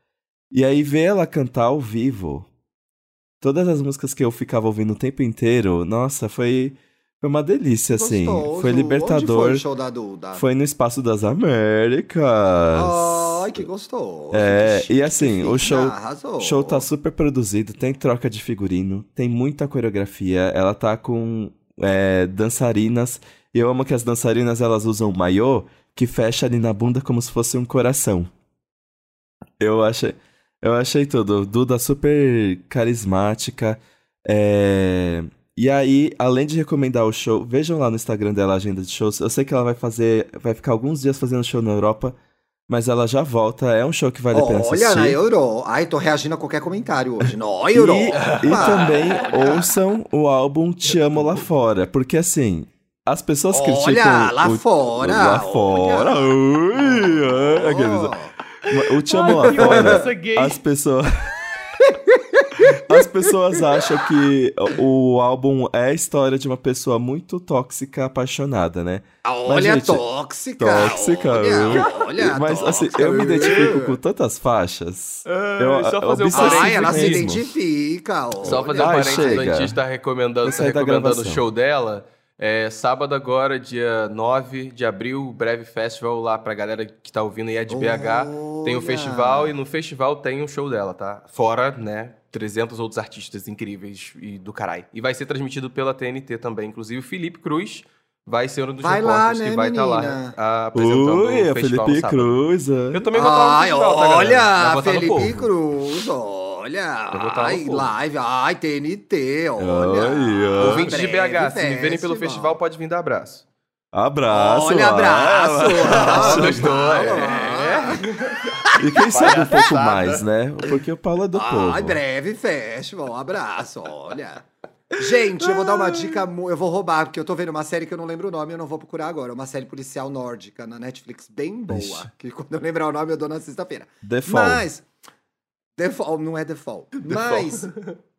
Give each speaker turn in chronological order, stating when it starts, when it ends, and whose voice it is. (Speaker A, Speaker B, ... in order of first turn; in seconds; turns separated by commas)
Speaker A: 0.5-2.5, Speaker A: 3.4-9.6, Speaker B: 7.9-10.4, Speaker A: 10.3-13.7, Speaker B: 12.7-16.9, Speaker A: 14.3-28.3, Speaker A: 29.6-42.1, Speaker A: 42.7-45.2, Speaker B: 44.3-48.9, Speaker A: 47.7-58.1, Speaker C: 48.1-49.6, Speaker C: 51.1-51.4, Speaker B: 53.5-56.3, Speaker B: 57.5-58.3, Speaker C: 58.6-60.6, Speaker A: 58.7-61.1, Speaker B: 59.2-60.0, Speaker B: 61.8-63.8, Speaker A: 62.6-70.0, Speaker B: 69.2-74.0, Speaker A: 70.6-77.4, Speaker C: 75.2-77.3, Speaker B: 76.3-79.4, Speaker C: 78.4-105.5, Speaker A: 78.4-79.8, Speaker A: 80.4-81.4, Speaker B: 87.7-89.6, Speaker B: 98.8-100.3, Speaker A: 100.7-103.0, Speaker B: 103.1-112.6, Speaker C: 107.1-107.9, Speaker A: 109.6-110.9, Speaker C: 110.6-113.4, Speaker A: 113.9-116.7, Speaker B: 114.3-118.1, Speaker C: 115.9-120.2, Speaker B: 118.7-119.6, Speaker A: 118.8-122.0, Speaker B: 121.3-134.8, Speaker A: 131.7-132.1, Speaker A: 134.0-134.7, Speaker B: 135.8-137.7, Speaker C: 137.0-137.9